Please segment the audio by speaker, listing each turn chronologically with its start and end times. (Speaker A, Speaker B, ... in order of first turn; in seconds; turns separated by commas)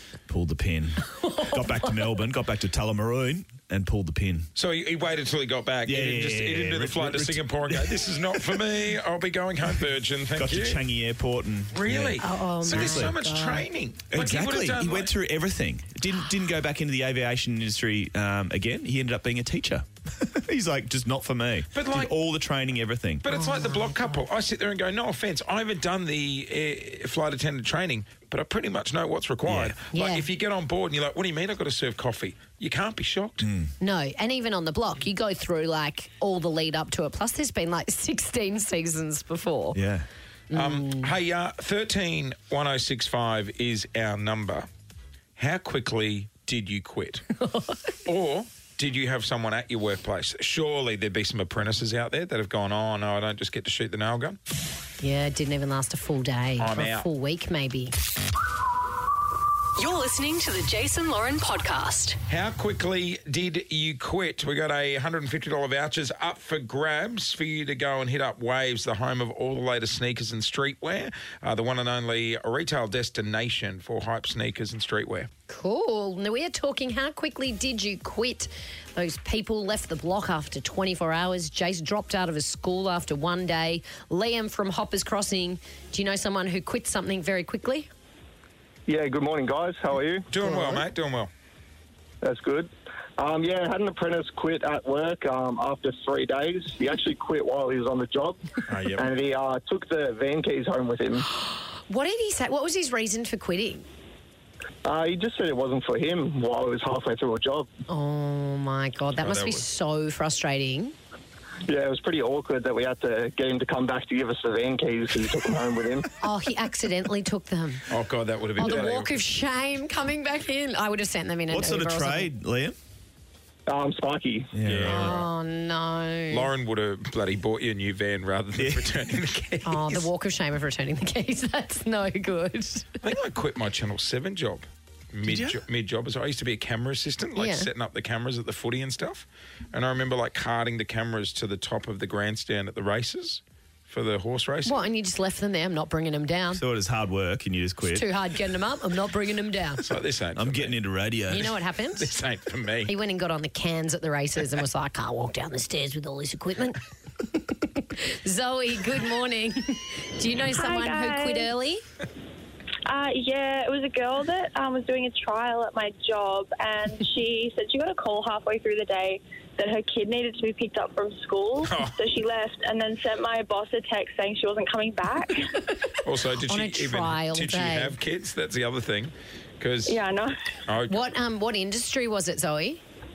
Speaker A: 0.3-4.5, Speaker B: 1.2-2.0, Speaker C: 4.5-10.8, Speaker A: 5.8-8.6, Speaker A: 10.3-13.2, Speaker C: 11.7-15.1, Speaker B: 12.2-13.7, Speaker A: 14.1-23.2, Speaker C: 21.7-22.1, Speaker C: 23.2-33.5, Speaker B: 23.3-24.2, Speaker A: 29.4-29.8, Speaker B: 29.9-30.3, Speaker A: 33.4-33.7, Speaker B: 33.8-39.8, Speaker A: 39.7-40.0, Speaker B: 40.5-41.1, Speaker C: 40.5-44.7, Speaker C: 45.4-47.2, Speaker B: 47.4-47.9, Speaker C: 48.0-54.4, Speaker B: 55.0-57.9, Speaker C: 56.6-57.1, Speaker D: 59.8-62.2, Speaker C: 62.3-75.3, Speaker B: 75.5-87.9, Speaker E: 88.9-90.3, Speaker C: 90.3-91.3, Speaker B: 90.4-90.8, Speaker E: 92.2-98.4, Speaker C: 98.7-99.1, Speaker E: 98.9-101.2, Speaker B: 101.8-103.8, Speaker E: 104.8-107.7, Speaker B: 107.9-110.9, Speaker C: 109.2-109.6, Speaker E: 111.7-116.1, Speaker B: 116.2-117.8, Speaker C: 117.9-119.2, Speaker B: 118.6-122.3, Speaker A: 121.5-122.8, Speaker E: 123.7-124.5, Speaker A: 124.5-125.2, Speaker C: 124.6-125.3, Speaker B: 124.8-126.5, Speaker C: 126.3-130.1, Speaker A: 128.6-129.0, Speaker B: 129.6-132.9, Speaker C: 133.0-144.8, Speaker A: 135.2-135.6, Speaker B: 137.3-137.7, Speaker B: 144.6-146.6, Speaker A: 146.5-148.1, Speaker B: 147.9-149.8, Speaker C: 149.8-150.8, Speaker A: 150.3-151.6, Speaker B: 151.3-152.1, Speaker C: 151.4-152.9, Speaker B: 152.8-156.8, Speaker B: 157.3-161.8, Speaker F: 160.5-161.5, Speaker F: 162.9-175.4, Speaker C: 171.7-171.9, Speaker C: 176.0-180.0, Speaker B: 176.4-177.9, Speaker F: 179.8-180.3, Speaker C: 180.7-181.0, Speaker B: 180.9-182.8